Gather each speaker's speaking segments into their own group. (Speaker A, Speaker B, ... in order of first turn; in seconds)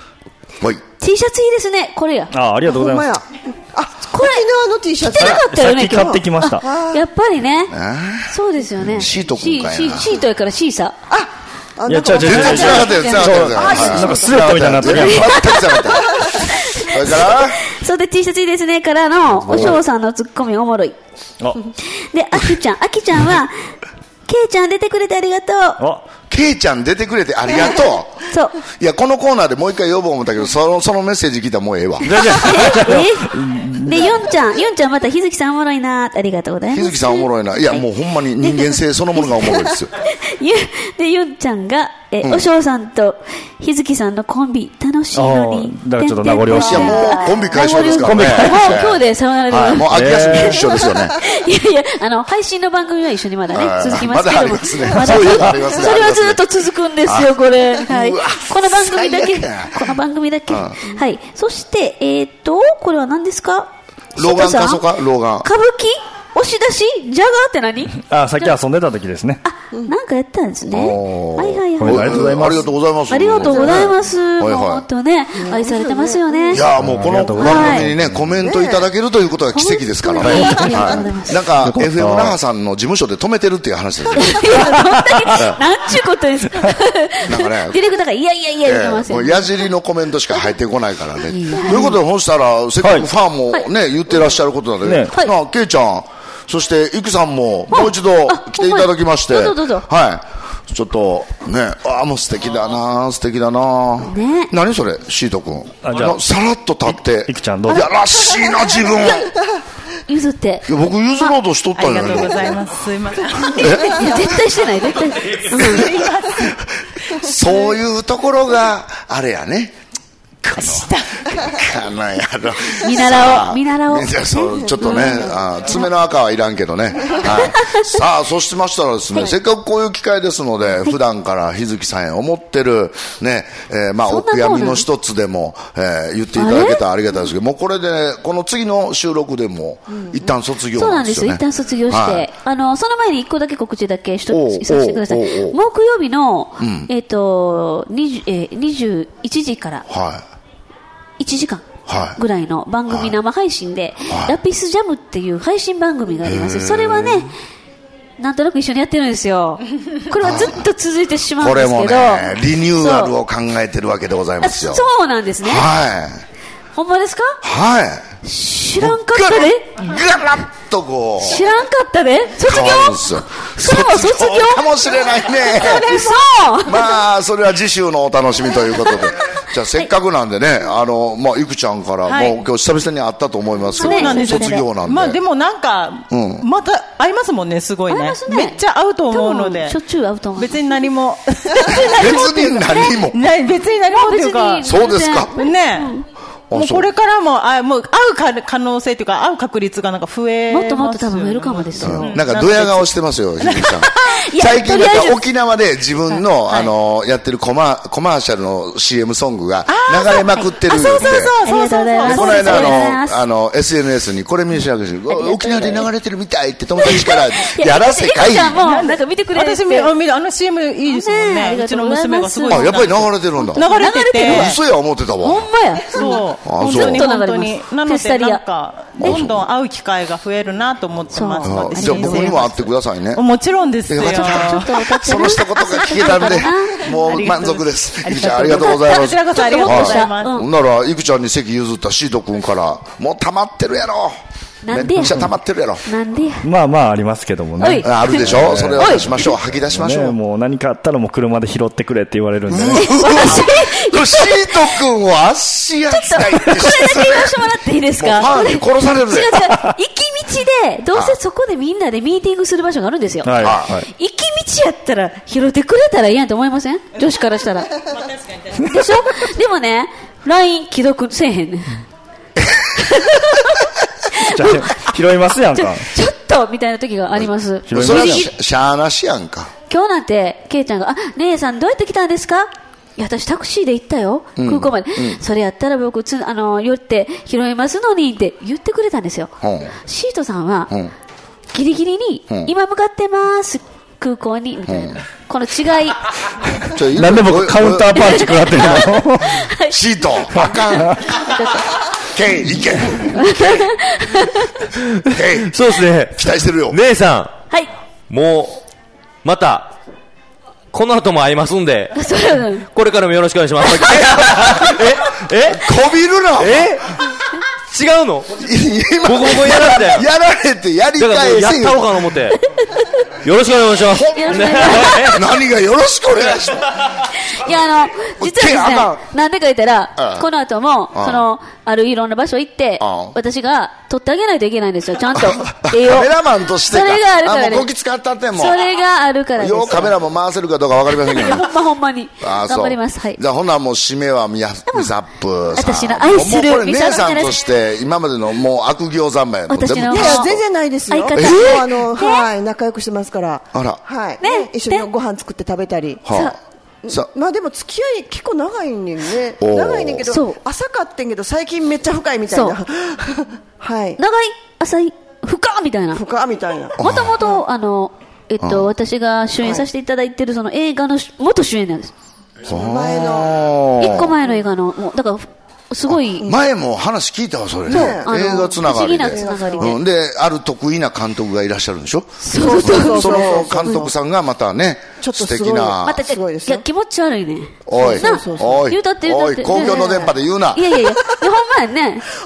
Speaker A: 1.0-2.3, 4.1-4.5, 5.0-7.7, 8.3-11.0, 12.4-14.1, 14.8-21.0, 21.6-23.7, 24.3-25.8, 32.2-37.8, 40.0-64.8, 65.4-68.5, 69.4-72.3, 73.1-76.6, 77.4-77.9, 79.5-81.4, 84.2-89.6, 91.2-92.0, 97.7-99.9, 104.0-104.5, 107.7-109.0, 110.1-111.3, 113.5-116.0, 122.8-125.8, 127.2-128.0, 134.0-134.8, 136.3-136.8, 140.7-149.8, 151.2-157.3, 158.2-163.1, 164.4-165.7, 166.8-167.4, 168.2-169.9, 171.2-177.0, 183.8-184.7, 187.9-190.6, 193.9-196.1, 200.5-202.2, 204.0-205.2, 210.7-213.2, 215.1-215.9, 216.8-219.9, 220.9-224.6, 225.2-228.4, 229.0-229.3, 231.1-232.4, 234.0-237.3, 238.5-240.5, 244.6-245.2, 245.8-246.5, 247.6-249.3, 252.7-254.8, 255.9-267.8, 268.5-271.8, 272.8-274.9, 275.5-278.3, 279.7-290.7, 291.5-296.0, 297.9-299.8, 300.3-301.8, 303.0-304.6, 311.9-312.7, 324.1-325.2, 327.2-336.1, 336.7-337.7, 338.3-339.9, 341.1-343.2, 345.5-347.4, 349.5-350.4, 350.9-352.2, 354.2-354.9, 360.1-360.4, 362.3-362.6, 364.0-366.0, 366.8-371.9, 373.8-376.3, 377.7-379.8, 382.2-383.8, 385.8-392.1
Speaker B: 2.3-3.1, 5.1-6.6, 11.9-15.5, 19.4-19.8, 25.8-26.0, 32.0-34.1, 45.1-47.1, 47.9-48.8, 49.9-50.6, 55.2-55.6, 68.0-69.4, 71.8-72.7, 76.7-78.4, 80.3-80.7, 81.6-82.4, 84.8-85.2, 94.8-95.1, 105.8-106.2, 106.9-107.9, 246.4-252.9, 263.2-263.9, 274.2-275.9, 277.7-278.3, 296.9-299.4, 300.4-301.0
Speaker C: 2.6-5.4, 6.6-7.0, 11.1-15.0, 15.9-16.4, 46.5-48.0, 73.4-73.8, 75.3-76.6, 78.4-78.8, 124.6-125.2, 349.9-356.3, 356.9-364.0, 365.9-366.8, 369.4-369.6, 372.4-373.5, 377.7-379.8, 382.3-383.9, 385.0-386.6, 387.8-388.7, 389.4-390.1
Speaker D: 7.7-8.3, 8.8-10.2, 12.2-17.6, 26.3-32.6, 36.7-39.9, 42.2-42.5, 46.5-51.2, 53.5-56.4, 57.0-59.9, 60.5-60.8, 64.2-65.5, 70.7-74.8, 76.5-84.6, 85.2-85.6, 87.2-87.8, 88.6-109.3, 110.7-112.6, 113.5-114.2, 115.6-116.6, 117.1-119.8, 120.4-142.3, 144.3-145.6, 146.6-146.9, 149.9-150.2, 151.9-152.2, 152.9-153.1, 154.1-154.4, 156.2-157.3, 160.2-160.6, 161.4-164.8, 165.4-166.2, 167.4-168.1, 168.8-171.5, 172.4-176.0, 176.6-185.2, 186.1-186.4, 191.6-193.2, 194.6-195.3, 196.5-196.9, 201.8-211.3, 212.0-218.6, 222.5-223.7, 224.2-225.5, 226.4-227.1, 229.0-229.4, 231.4-233.2, 233.9-244.2, 244.7-245.8, 247.8-250.2, 252.5-259.5, 263.4-263.8, 272.4-272.8, 277.2-279.5, 284.4-285.2, 289.4-289.7, 294.7-295.0, 296.7-298.9, 299.7-301.1, 301.9-303.5, 305.1-305.5, 306.1-306.8, 315.4-316.8, 318.4-321.9, 323.9-326.8, 328.2-329.0, 330.0-330.2, 330.9-331.2, 332.8-333.1, 335.1-338.6, 339.4-341.5, 342.2-350.4, 351.1-351.5, 353.5-353.8, 356.0-357.1, 359.4-360.1, 366.8-367.2, 368.4-368.7, 372.5-374.1, 375.9-386.0, 387.7-390.8
Speaker E: 111.8-114.2, 115.5-116.5, 120.6-121.2, 175.5-176.3, 182.1-182.4, 183.8-189.8, 190.4-194.7, 195.3-195.9, 196.5-202.9, 203.4-204.2, 206.5-206.7, 209.7-212.8, 218.6-224.5, 225.9-240.4, 267.9-268.9
Speaker F: 305.4-307.3, 308.1-308.6, 309.2-309.7, 310.7-311.9, 312.7-315.7, 316.4-318.4, 319.0-320.1, 321.0-322.4, 323.2-325.2